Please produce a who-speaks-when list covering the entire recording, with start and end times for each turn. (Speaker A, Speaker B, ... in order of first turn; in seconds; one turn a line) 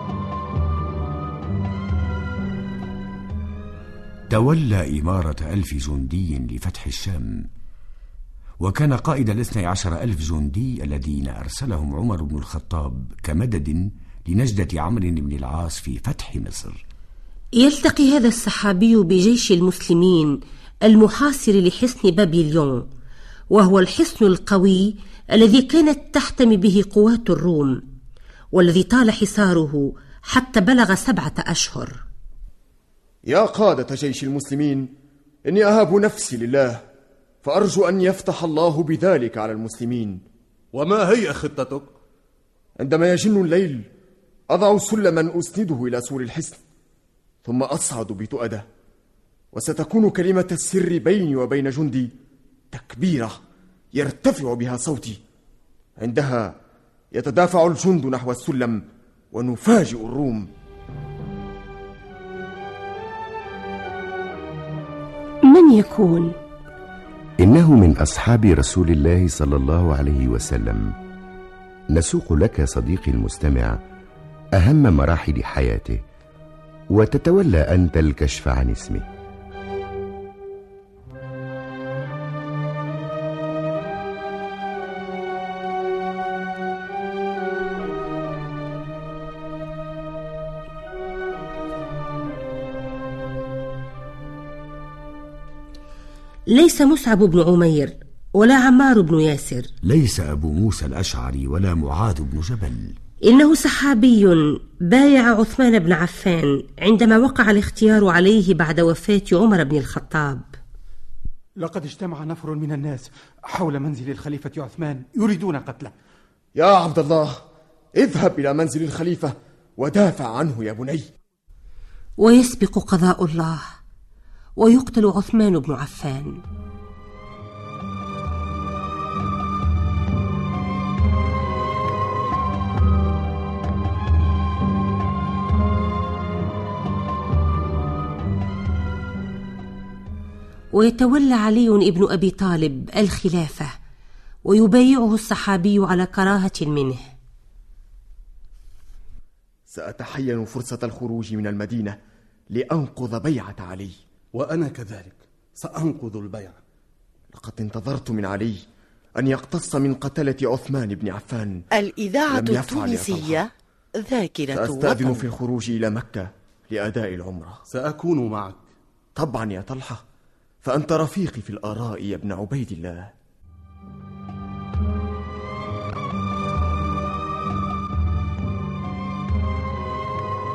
Speaker A: 4.3-7.4
Speaker A: 8.6-16.8
Speaker B: 17.6-22.9
Speaker B: 23.5-27.8
Speaker B: 28.5-32.0
Speaker C: 33.3-34.9
Speaker C: 35.5-36.8
Speaker C: 37.4-40.2
Speaker D: 40.7-41.9
Speaker C: 42.8-43.9
Speaker C: 44.5-46.6
Speaker C: 47.4-48.6
Speaker C: 49.5-52.1
Speaker C: 52.7-53.4
Speaker C: 53.9-55.2
Speaker C: 56.0-56.5
Speaker C: 57.1-58.8
Speaker C: 59.3-60.5
Speaker B: 65.5-66.3
Speaker E: 67.4-70.9
Speaker E: 71.9-73.8
Speaker E: 74.6-76.0
Speaker E: 76.9-79.0
Speaker B: 96.5-99.7
Speaker A: 99.8-103.0
Speaker B: 103.2-110.5
Speaker F: 111.6-115.9
Speaker C: 116.6-117.4
Speaker C: 118.0-121.0
Speaker B: 122.2-123.7
Speaker B: 124.6-126.3
Speaker B: 140.8-143.7
Speaker B: 144.5-147.1
Speaker C: 149.7-152.0
Speaker C: 152.5-153.9
Speaker D: 154.4-156.6
Speaker C: 157.3-158.6
Speaker C: 159.2-161.6
Speaker G: 161.7-165.2
Speaker C: 162.3-163.5
Speaker C: 164.5-167.6
Speaker D: 167.7-168.6
Speaker C: 169.2-170.0
Speaker C: 170.6-173.1